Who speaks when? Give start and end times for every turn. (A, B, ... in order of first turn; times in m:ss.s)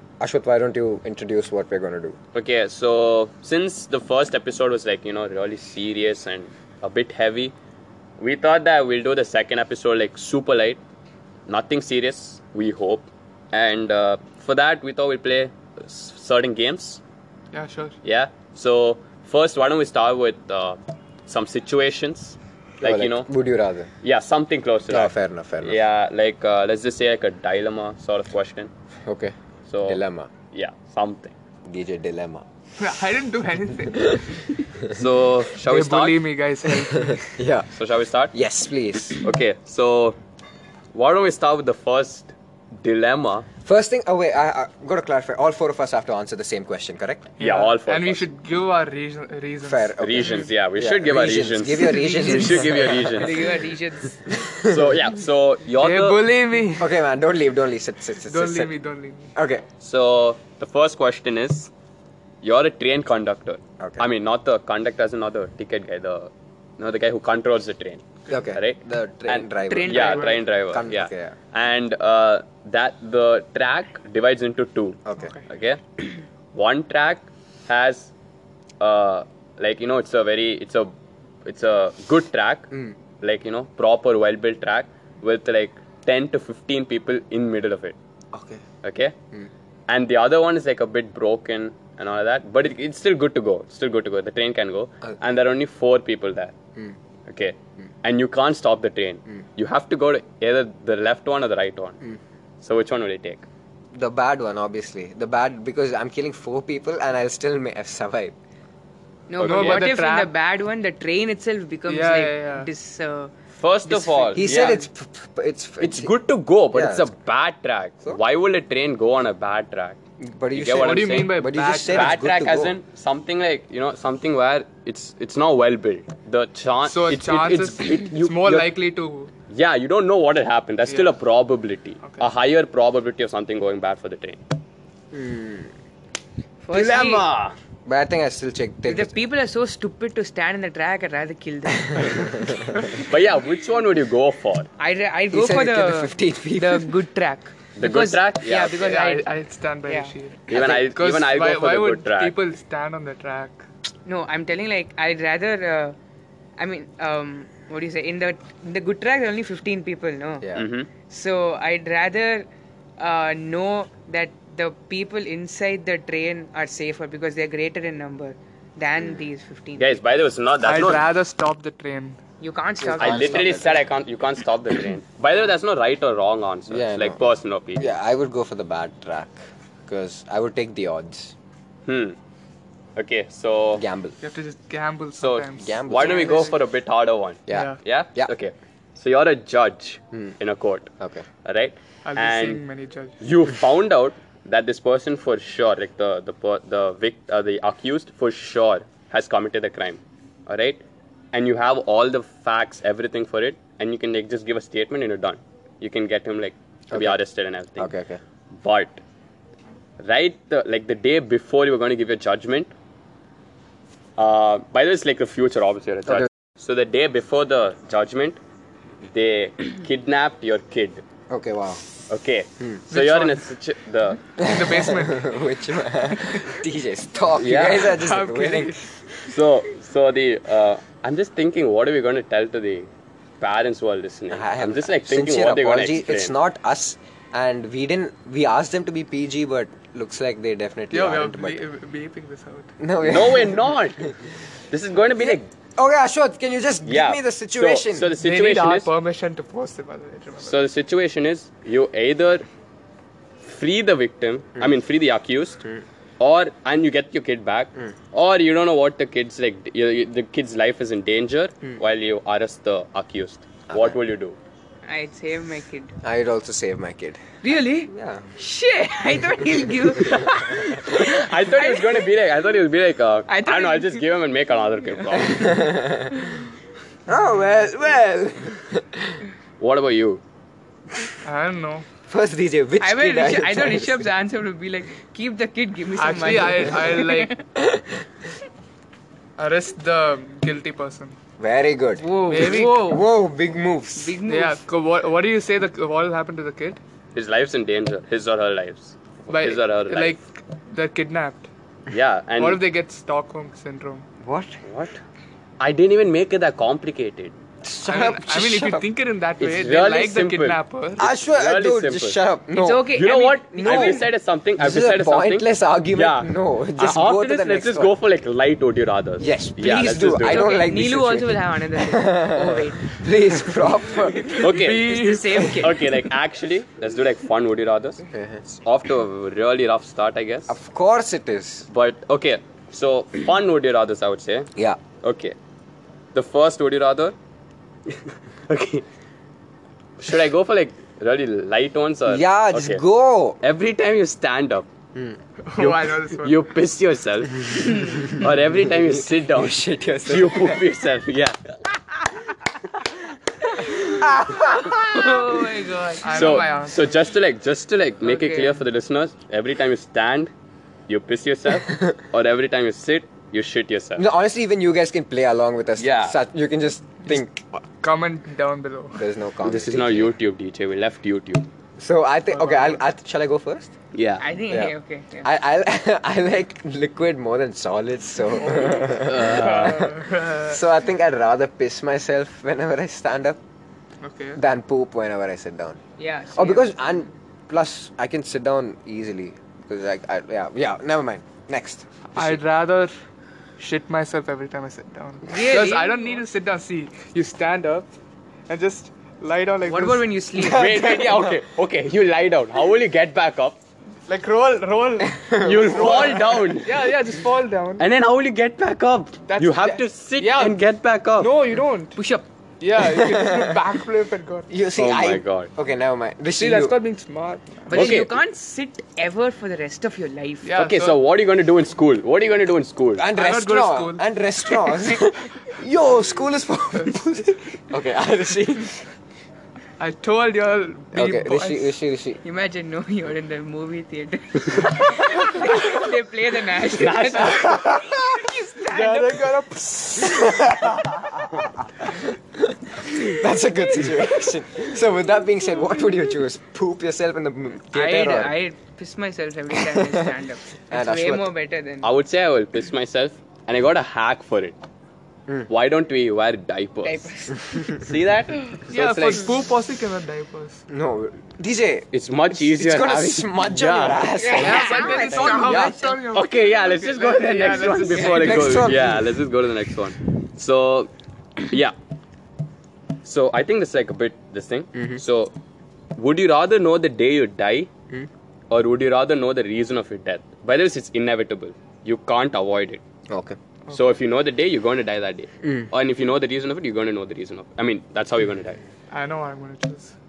0:00.2-0:02.2 A
0:02.3-0:07.5 B
0:08.2-0:10.8 B
0:11.5-0:17.0 B
0:17.5-0:18.0 C
0:18.0-0:23.3 B
0:22.8-0:23.9 A
0:24.0-0:28.7 B
0:24.9-0:25.8 A
0:29.1-0:30.3 A
0:29.7-0:30.0 B
0:30.5-0:31.4 B
0:31.6-0:32.4 A
0:32.8-0:34.5 C
0:34.9-0:36.2 B
0:35.7-0:37.3 C
0:36.8-0:37.7 A
0:37.7-0:38.3 B
0:38.3-0:39.2 A
0:39.2-0:40.2 B
0:40.9-0:43.5 B
0:43.6-0:47.3 A
0:47.4-0:48.3 B
0:47.4-0:50.5 C
0:49.6-0:53.4 A
0:50.0-0:53.5 B
0:52.0-0:52.5 D
0:52.1-0:52.4 C
0:53.1-0:54.2 D
0:53.2-0:53.7 C
0:54.3-0:54.9 A
0:54.4-0:56.3 B
0:55.8-0:56.9 C
0:56.8-0:58.7 A
0:58.2-0:59.3 C
0:59.4-0:59.7 A
0:59.8-1:01.7 B
1:02.4-1:18.1 B
1:03.8-1:04.1 A
1:08.3-1:11.4 A
1:09.7-1:10.4 D
1:15.0-1:15.4 A
1:15.2-1:15.4 C
1:18.8-1:20.9 B
1:21.4-1:28.0 B
1:28.3-1:28.6 A
1:28.8-1:29.2 B
1:29.9-1:36.6 B
1:37.3-1:42.0 B
1:42.6-1:43.4 B
1:43.9-1:48.4 A
1:49.3-1:53.3 D
1:49.4-1:49.9 B
1:49.4-1:50.3 C
1:51.9-1:52.7 C
1:53.6-1:54.8 B
1:53.9-1:54.9 D
1:54.4-1:56.1 A
1:55.8-2:00.0 B
1:56.7-1:57.1 A
2:00.2-2:02.8 A
2:00.5-2:08.7 B
2:00.8-2:02.2 C
2:06.8-2:09.3 C
2:09.5-2:14.4 B
2:10.9-2:11.1 C
2:12.0-2:12.3 C
2:15.1-2:15.7 A
2:16.6-2:17.2 D
2:16.7-2:17.6 B
2:17.9-2:19.2 A
2:18.9-2:22.5 D
2:21.9-2:22.8 A
2:22.9-2:24.7 B
2:24.8-2:29.3 D
2:25.3-2:26.9 A
2:27.8-2:29.0 B
2:28.8-2:33.6 C
2:29.9-2:30.1 D
2:30.5-2:32.4 B
2:30.5-2:30.9 A
2:34.1-2:36.0 D
2:36.6-2:40.5 D
2:40.4-2:40.7 A
2:40.5-2:40.9 B
2:41.1-2:42.5 D
2:43.0-2:50.0 D
2:49.0-2:49.3 A
2:49.8-2:51.1 B
2:50.6-2:52.2 C
2:52.4-2:53.7 D
2:52.8-2:53.8 A
2:53.0-2:57.9 B
2:56.7-2:57.2 A
2:57.8-3:01.3 A
3:01.9-3:02.2 B
3:03.0-3:03.8 B
3:03.8-3:04.2 A
3:04.2-3:06.6 C
3:05.2-3:10.9 B
3:05.6-3:06.5 A
3:07.5-3:08.3 A
3:07.5-3:07.8 C
3:11.0-3:11.3 A
3:11.4-3:12.6 B
3:12.0-3:13.2 C
3:13.2-3:20.8 B
3:21.3-3:27.9 B
3:26.9-3:27.2 A
3:27.8-3:28.2 A
3:28.5-3:29.0 B
3:30.0-3:32.7 B
3:34.2-3:38.4 B
3:39.1-3:41.0 B
3:41.3-3:41.8 A
3:42.1-3:44.3 B
3:42.9-3:43.4 C
3:44.4-3:48.8 A
3:44.4-3:45.3 C
3:47.4-3:48.0 B
3:47.9-3:48.9 C
3:49.2-3:52.9 B
3:53.4-3:56.3 B
3:54.3-4:01.6 A
4:00.9-4:02.7 C
4:02.8-4:04.1 A
4:03.0-4:04.2 B
4:04.7-4:05.5 B
4:05.2-4:08.2 A
4:06.9-4:08.9 B
4:08.2-4:10.6 C
4:10.4-4:12.4 B
4:13.4-4:15.6 B
4:16.2-4:24.4 B
4:23.7-4:24.0 A
4:24.8-4:26.0 D
4:26.0-4:27.2 A
4:27.4-4:32.1 D
4:27.9-4:28.3 A
4:30.1-4:30.7 A
4:30.1-4:35.7 B
4:33.3-4:34.1 D
4:35.0-4:35.5 D
4:35.4-4:36.3 A
4:36.1-4:36.4 D
4:37.1-4:39.2 A
4:39.6-4:40.2 B
4:41.2-4:41.9 C
4:42.1-4:44.1 A
4:42.8-4:47.4 D
4:46.0-4:47.4 C
4:47.6-4:48.0 A
4:49.4-4:51.2 C
4:51.4-4:54.2 A
4:52.0-4:53.1 D
4:52.3-4:53.0 C
4:54.0-4:54.6 D
4:54.3-4:56.8 C
4:57.1-5:00.2 B
4:59.3-5:01.5 C
5:01.9-5:02.6 B
5:02.4-5:04.1 C
5:04.2-5:04.6 A
5:04.7-5:05.0 B
5:05.6-5:07.3 B
5:07.6-5:08.9 A
5:07.8-5:11.0 C
5:09.4-5:12.2 B
5:11.0-5:13.0 A
5:12.5-5:14.0 D
5:12.9-5:20.6 B
5:13.6-5:14.1 A
5:14.6-5:17.9 A
5:19.2-5:24.6 A
5:20.2-5:23.0 D
5:24.2-5:25.8 C
5:24.4-5:30.6 B
5:24.8-5:25.9 D
5:28.1-5:28.4 A
5:30.5-5:31.7 A
5:31.7-5:34.5 B
5:35.0-5:35.4 B
5:36.1-5:37.2 B
5:37.9-5:38.8 B
5:40.0-5:42.8 B
5:42.1-5:43.4 A
5:43.4-5:44.7 B
5:45.5-5:46.4 C
5:45.6-5:51.8 B
5:47.8-5:50.6 A
5:53.7-5:55.0 A
5:54.5-5:56.5 D
5:56.0-5:57.1 C
5:56.1-6:00.3 B
5:58.0-5:58.6 D
6:00.9-6:04.0 B
6:01.7-6:01.9 A
6:04.0-6:07.4 A
6:05.8-6:06.2 B
6:07.1-6:09.1 C
6:09.0-6:10.1 A
6:09.4-6:11.4 B
6:11.8-6:13.7 A
6:12.3-6:12.8 C
6:13.9-6:14.2 B
6:14.2-6:15.3 D
6:14.5-6:23.4 A
6:18.5-6:20.6 C
6:18.6-6:20.0 B
6:24.0-6:24.4 C
6:24.4-6:25.8 A
6:26.0-6:26.7 D
6:26.3-6:32.4 A
6:32.2-6:32.9 C
6:33.6-6:37.9 C
6:35.3-6:36.2 D
6:38.5-6:40.1 C
6:39.6-6:41.0 D
6:40.4-6:41.3 A
6:40.4-6:43.6 B
6:44.1-6:47.9 C
6:45.2-6:46.2 A
6:45.4-6:47.0 B
6:47.8-6:51.3 B
6:49.3-6:50.6 C
6:51.2-6:52.0 C
6:52.0-6:52.3 D
6:52.6-6:54.5 C
6:52.8-6:53.6 A
6:54.5-6:56.8 A
6:54.8-6:55.5 B
6:56.4-6:58.0 C
6:57.7-7:00.5 D
6:57.7-6:58.1 B
7:00.4-7:01.0 C
7:00.6-7:03.0 B
7:03.0-7:08.8 A
7:03.1-7:04.0 C
7:04.6-7:05.0 C
7:09.8-7:11.7 C
7:11.0-7:12.2 A
7:12.2-7:19.3 D
7:16.8-7:17.9 B
7:18.6-7:20.5 C
7:20.0-7:28.4 A
7:27.7-7:31.9 D
7:29.6-7:30.2 A
7:30.7-7:31.3 A
7:31.8-7:34.6 B
7:35.5-7:37.1 B
7:36.8-7:37.8 D
7:37.7-7:39.3 B
7:38.7-7:40.6 C
7:40.7-7:45.0 A
7:41.9-7:50.9 B
7:44.2-7:46.0 D
7:44.4-7:48.7 C
7:48.1-7:49.2 A
7:51.4-7:51.8 B
7:53.0-7:55.3 B
7:54.8-7:55.0 A
7:56.0-7:57.7 B
7:58.5-8:02.8 B
8:03.1-8:03.4 A
8:03.7-8:08.6 B
8:05.4-8:05.7 A
8:08.9-8:09.9 C